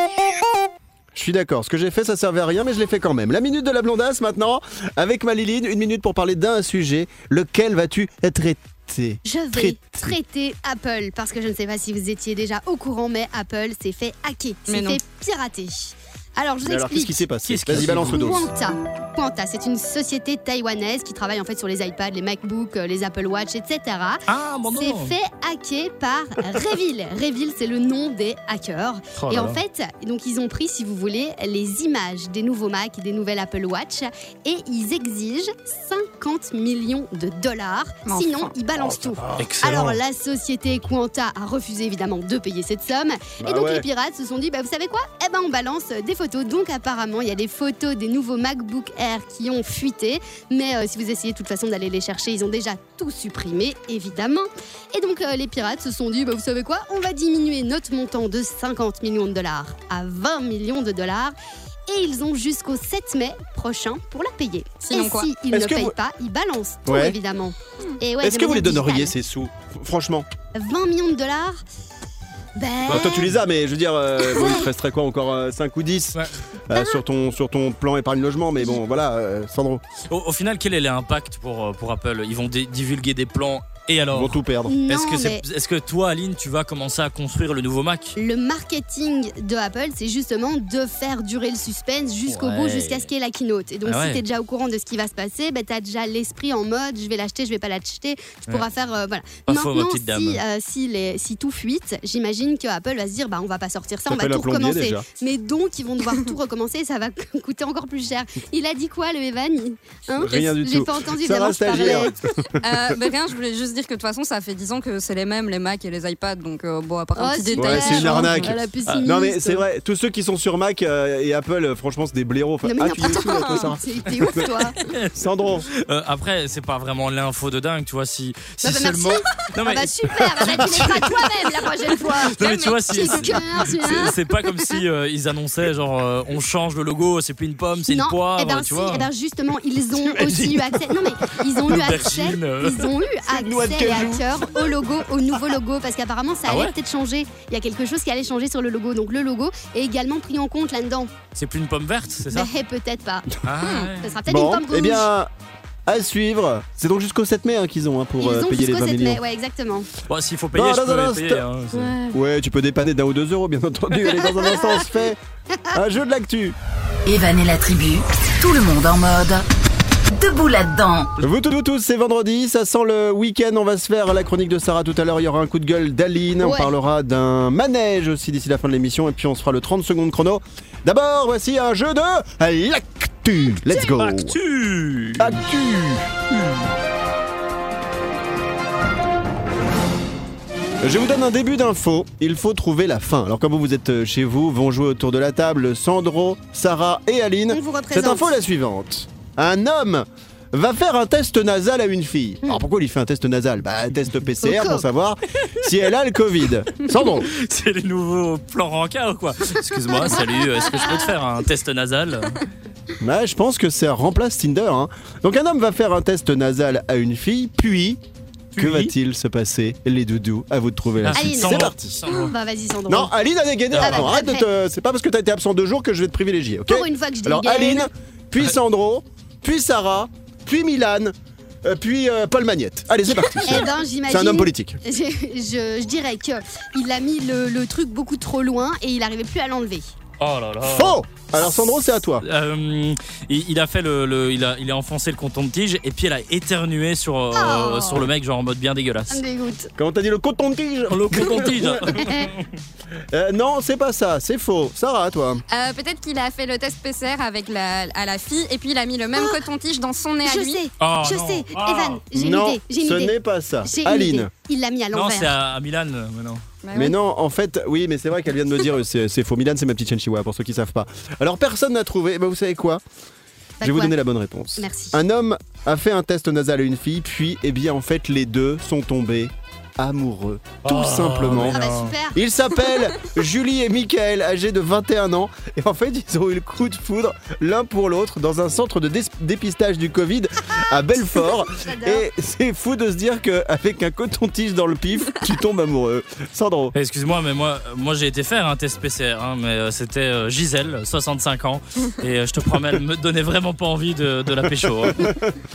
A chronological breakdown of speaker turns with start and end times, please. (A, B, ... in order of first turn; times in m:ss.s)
0:01.1-0:10.2 A
0:09.2-1:01.3 B
0:14.7-0:15.0 C
0:16.6-0:18.5 A
0:17.4-0:18.3 D
0:24.3-0:25.1 D
0:29.1-0:29.6 D
0:38.0-0:38.5 C
0:38.8-0:39.5 A
0:39.4-0:40.0 D
0:43.4-0:43.8 A
1:01.9-1:09.1 B
1:04.8-1:05.3 C
1:05.5-1:05.9 A
1:06.9-1:07.2 A
1:08.2-1:10.3 A
1:10.5-1:11.6 B
1:12.5-1:13.3 B
1:12.9-1:13.3 D
1:12.9-1:19.8 A
1:14.2-1:14.7 B
1:16.7-1:17.0 B
1:20.1-1:28.2 D
1:24.1-1:24.7 A
1:24.7-1:25.4 B
1:28.2-1:52.1 B
1:32.3-1:33.1 D
1:33.8-1:34.2 D
1:39.4-1:40.4 D
1:44.1-1:45.0 A
1:50.1-1:52.6 A
1:52.6-1:58.5 C
1:57.2-1:59.6 B
1:57.5-2:04.5 A
2:02.6-2:04.8 B
2:03.3-2:03.6 C
2:04.4-2:05.1 D
2:05.1-2:05.7 A
2:05.7-2:11.2 D
2:08.6-2:14.1 B
2:12.0-2:19.1 D
2:12.4-2:13.1 C
2:17.9-2:31.1 B
2:20.0-2:22.9 D
2:23.3-2:24.5 A
2:26.5-2:26.7 D
2:31.4-2:32.5 D
2:32.3-2:33.3 B
2:33.4-2:34.1 D
2:33.6-2:33.9 C
2:34.0-2:35.1 B
2:34.3-2:35.3 A
2:35.8-2:39.2 A
2:38.2-2:39.9 B
2:40.1-2:41.9 D
2:40.5-2:41.4 A
2:41.7-2:42.2 B
2:42.1-2:45.2 A
2:44.4-2:44.8 B
2:45.7-2:46.6 A
2:47.0-2:49.4 E
2:50.1-2:51.1 E
2:51.2-3:04.4 A
2:56.4-2:56.7 B
3:03.8-3:05.4 D
3:05.2-3:06.2 A
3:06.3-3:06.7 D
3:10.8-3:27.3 A
3:17.5-3:18.4 B
3:24.4-3:24.8 B
3:26.9-3:32.4 D
3:30.6-3:30.9 B
3:33.0-3:38.0 A
3:38.5-3:38.9 D
3:38.6-3:41.8 A
3:41.0-3:42.3 D
3:41.1-3:43.1 B
3:42.9-3:54.8 A
3:43.7-3:44.1 D
3:43.8-3:44.4 B
3:46.6-3:47.9 B
3:53.4-3:59.9 B
4:00.2-4:01.0 D
4:00.6-4:02.2 A
4:02.2-4:09.2 D
4:07.3-4:08.1 B
4:09.1-4:09.7 B
4:09.8-4:12.1 A
4:10.9-4:12.4 D
4:12.0-4:12.3 B
4:13.1-4:15.4 A
4:15.5-4:20.6 C
4:19.2-4:19.4 B
4:20.2-4:25.3 B
4:20.8-4:22.0 D
4:22.1-4:24.3 A
4:24.9-4:26.4 D
4:26.6-4:26.9 C
4:26.7-4:32.8 A
4:33.6-4:33.9 B
4:33.6-4:56.7 A
4:34.6-4:35.0 B
4:40.6-4:41.9 D
4:41.3-4:42.2 B
4:51.4-4:52.0 B
4:56.7-5:05.1 D
5:04.5-5:05.4 A